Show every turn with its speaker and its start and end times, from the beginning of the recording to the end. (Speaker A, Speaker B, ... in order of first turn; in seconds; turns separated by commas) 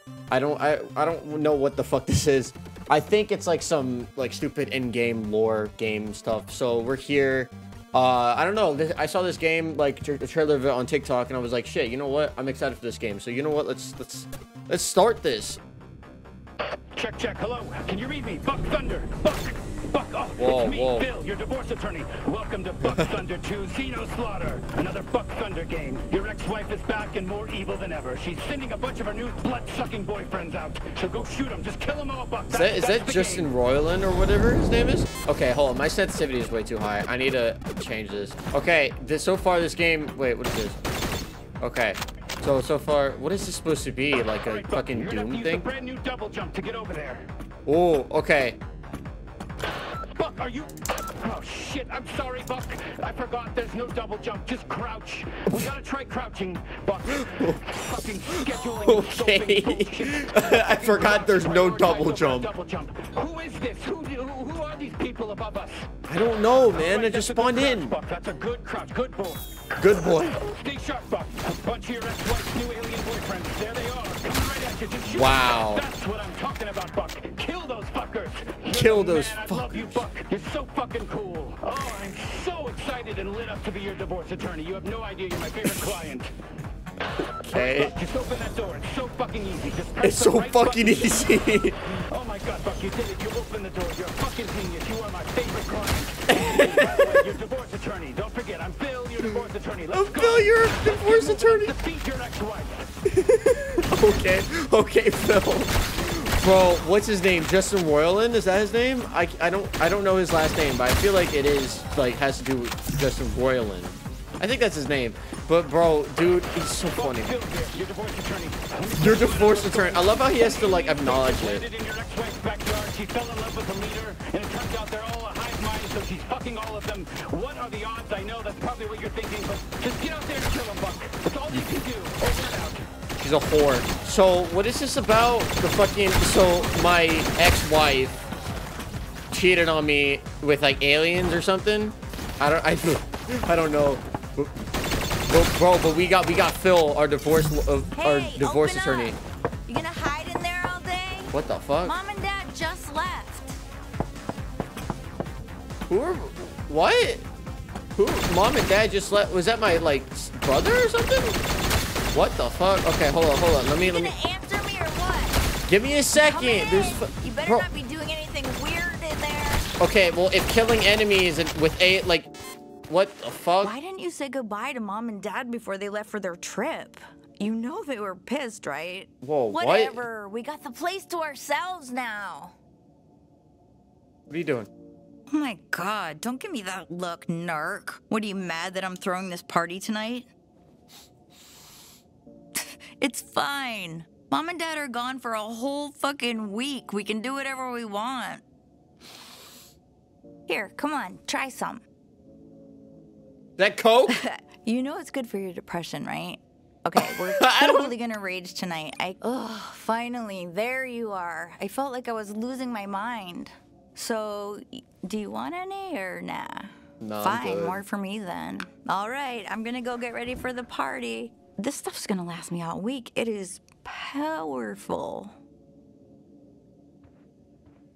Speaker A: 0.3-15.6, Speaker B: 16.9-33.5, Speaker A: 20.4-21.1, Speaker A: 32.5-40.8, Speaker A: 41.6-45.7, Speaker B: 44.4-47.3, Speaker A: 47.7-48.6, Speaker B: 50.2-65.9, Speaker A: 57.3-57.6, Speaker A: 58.3-62.5, Speaker A: 66.1-68.0, Speaker B: 66.7-69.5, Speaker A: 69.8-70.4, Speaker B: 70.1-86.3, Speaker A: 75.1-75.9, Speaker A: 78.7-80.0, Speaker A: 87.4-87.9, Speaker B: 87.5-102.9, Speaker A: 90.0-91.8, Speaker A: 96.3-97.2, Speaker A: 99.9-101.8, Speaker A: 103.1-117.3, Speaker B: 116.9-132.9, Speaker A: 119.0-121.7, Speaker A: 133.2-138.2, Speaker A: 139.3-144.5, Speaker A: 145.3-149.2, Speaker C: 147.9-153.6, Speaker A: 151.3-151.9, Speaker A: 155.9-157.2, Speaker A: 157.9-161.4, Speaker A: 162.1-164.1, Speaker C: 163.8-165.4, Speaker A: 165.7-167.7, Speaker C: 166.2-169.7, Speaker A: 169.8-172.3, Speaker A: 172.9-173.7, Speaker C: 173.6-182.6, Speaker A: 179.2-180.0, Speaker A: 184.3-184.7, Speaker C: 185.3-190.3, Speaker C: 192.6-198.4, Speaker C: 200.5-201.8, Speaker A: 203.6-204.2, Speaker C: 204.1-225.3, Speaker A: 207.0-207.9, Speaker A: 217.0-217.8